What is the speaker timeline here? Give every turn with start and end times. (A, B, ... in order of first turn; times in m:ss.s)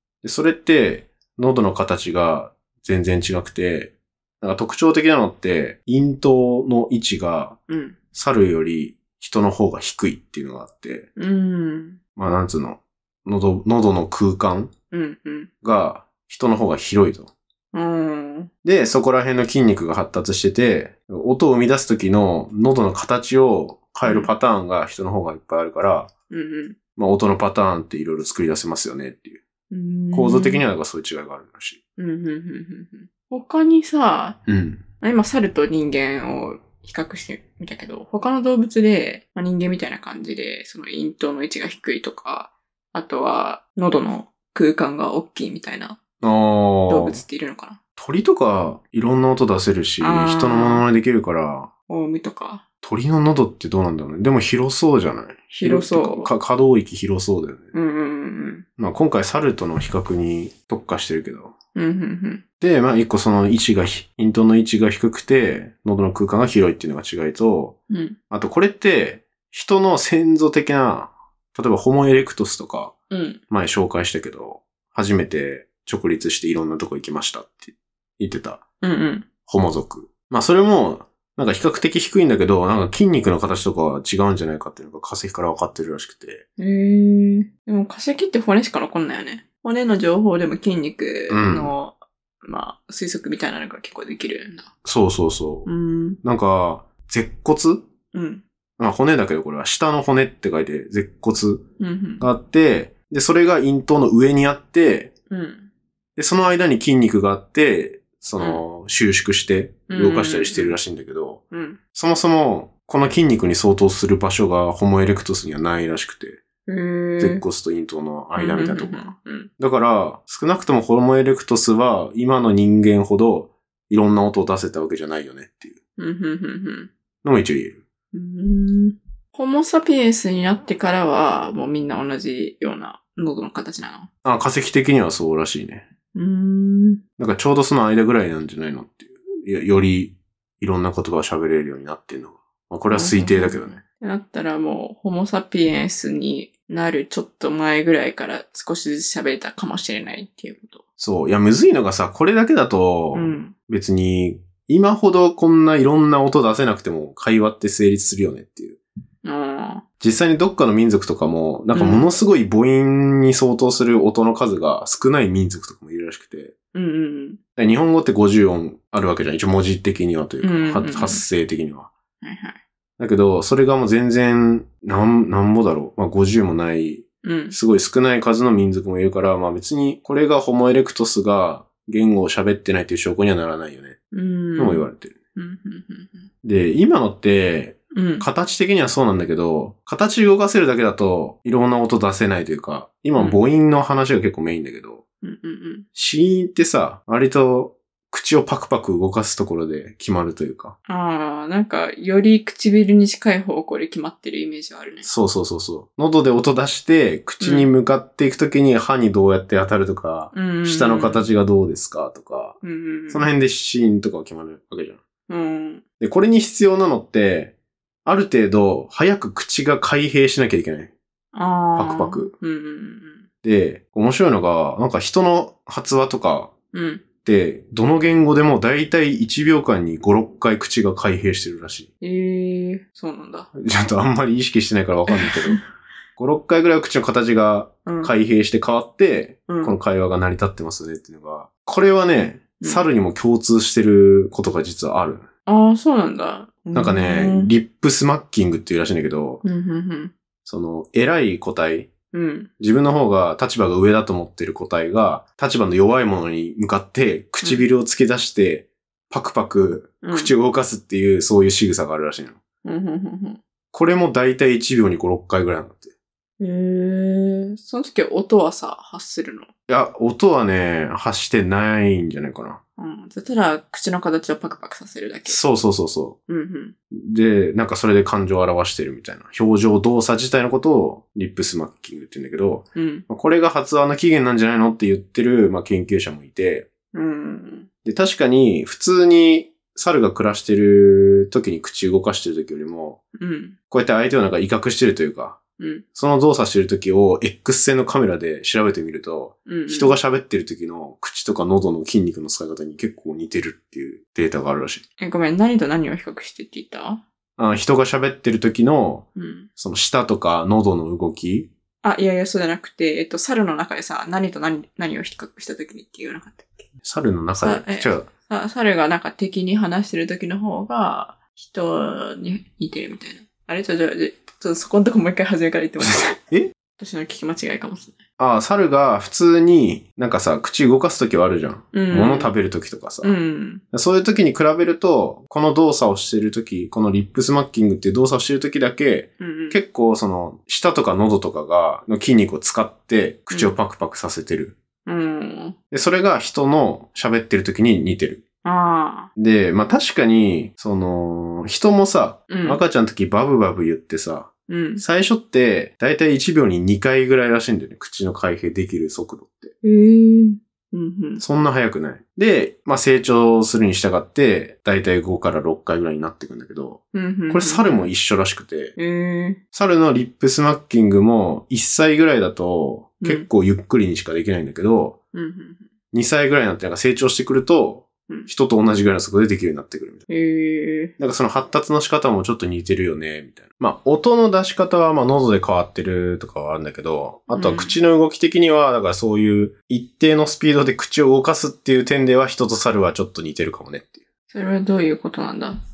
0:00.2-0:07.6 A
0:07.7-0:08.0 B
0:08.1-0:11.1 A
0:11.2-0:12.0 B
0:12.2-0:14.7 A
0:14.9-0:15.5 B
0:15.6-0:17.3 A
0:17.7-0:18.5 B
0:18.6-0:26.1 A
0:24.0-0:24.3 B
0:26.3-0:26.8 B
0:27.0-0:29.4 A
0:29.7-0:30.6 B
0:30.1-0:31.8 A
0:32.0-0:34.4 B
0:34.5-0:34.8 A
0:35.0-0:46.0 B
0:46.2-0:47.2 A
0:46.9-0:47.8 B
0:48.0-0:51.7 A
0:50.0-0:50.8 B
0:51.9-0:52.6 B
0:52.8-0:57.7 A
0:55.5-0:56.3 B
0:57.7-0:58.6 B
0:58.8-1:01.5 A
1:01.7-1:02.4 B
1:02.6-1:07.8 A
1:07.9-1:08.2 B
1:08.3-1:12.9 A
1:13.1-1:13.4 B
1:13.5-1:18.6 A
1:18.8-1:19.3 B
1:19.4-1:26.4 A
1:26.6-1:34.7 B
1:31.3-1:31.7 A
1:34.8-1:35.7 A
1:35.6-1:36.2 B
1:36.2-1:37.8 A
1:38.1-1:38.4 B
1:38.8-1:41.6 A
1:41.8-1:42.2 B
1:42.2-1:45.1 A
1:45.3-1:45.7 B
1:46.2-1:51.4 A
1:49.9-1:50.8 B
1:51.5-1:51.8 B
1:51.9-1:56.4 A
1:56.7-1:57.4 B
1:57.2-2:05.8 A
1:58.4-1:59.5 B
2:06.0-2:06.9 B
2:07.2-2:07.8 A
2:08.1-2:14.1 B
2:14.2-2:15.8 A
2:16.1-2:17.0 B
2:17.2-2:23.8 A
2:22.9-2:30.8 B
2:31.0-2:38.8 A
2:33.1-2:33.5 B
2:39.2-2:39.8 B
2:40.0-2:46.5 A
2:41.7-2:42.0 B
2:46.7-2:47.4 B
2:47.6-2:51.9 A
2:50.4-2:51.2 B
2:52.2-2:52.6 B
2:53.0-3:04.0 A
2:57.2-2:57.6 B
3:04.1-3:06.3 B
3:04.6-3:05.1 A
3:06.4-3:15.0 A
3:07.9-3:08.3 B
3:15.2-3:15.8 B
3:15.9-3:20.8 A
3:20.9-3:25.1 B
3:25.0-3:32.6 A
3:27.4-3:27.7 B
3:30.3-3:31.3 B
3:32.6-3:33.3 B
3:33.1-3:35.0 A
3:35.3-3:35.8 B
3:36.0-3:37.5 A
3:38.0-3:40.9 A
3:41.3-3:43.3 B
3:41.8-3:42.3 A
3:43.4-3:46.5 A
3:46.7-3:47.0 B
3:47.2-3:51.9 A
3:52.0-3:53.5 B
3:53.6-3:55.6 A
3:55.1-3:55.6 B
3:56.2-4:05.3 A
3:57.8-3:58.1 B
3:59.5-3:59.8 B
4:05.4-4:07.5 B
4:06.7-4:09.4 A
4:09.4-4:10.1 B
4:10.4-4:11.9 A
4:12.1-4:12.5 B
4:12.6-4:22.4 A
4:20.0-4:20.3 B
4:22.6-4:23.4 B
4:23.7-4:25.9 A
4:26.4-4:29.5 B
4:29.7-4:32.6 A
4:32.8-4:35.4 B
4:35.2-4:36.2 A
4:36.3-4:36.7 B
4:36.9-4:46.7 A
4:42.7-4:43.1 B
4:46.9-4:47.7 B
4:47.8-4:53.0 A
4:53.2-4:53.6 B
4:53.7-4:55.4 A
4:55.6-4:55.8 B
4:55.9-5:04.8 A
4:59.4-5:00.0 B
5:05.0-5:07.0 B
5:07.4-5:11.5 A
5:09.2-5:09.5 B
5:11.8-5:16.7 B
5:16.8-5:18.1 A
5:17.4-5:26.2 B
5:25.8-5:26.5 A
5:26.8-5:28.0 B
5:28.2-5:33.1 A
5:31.7-5:32.3 B
5:33.0-5:33.6 B
5:33.7-5:44.6 A
5:39.2-5:39.6 B
5:43.3-5:43.5 B
5:44.8-5:45.6 B
5:45.7-5:48.2 A
5:48.4-5:49.1 B
5:49.2-5:59.5 A
5:52.3-5:52.6 B
5:54.5-5:54.8 B
5:59.6-6:01.2 B
6:01.2-6:08.8 A
6:06.9-6:07.9 B
6:08.8-6:09.4 B
6:09.5-6:15.0 A
6:13.0-6:13.3 B
6:15.1-6:15.7 B
6:15.9-6:20.0 A
6:20.1-6:20.9 B
6:21.0-6:34.0 A
6:27.3-6:27.8 B
6:34.3-6:35.6 B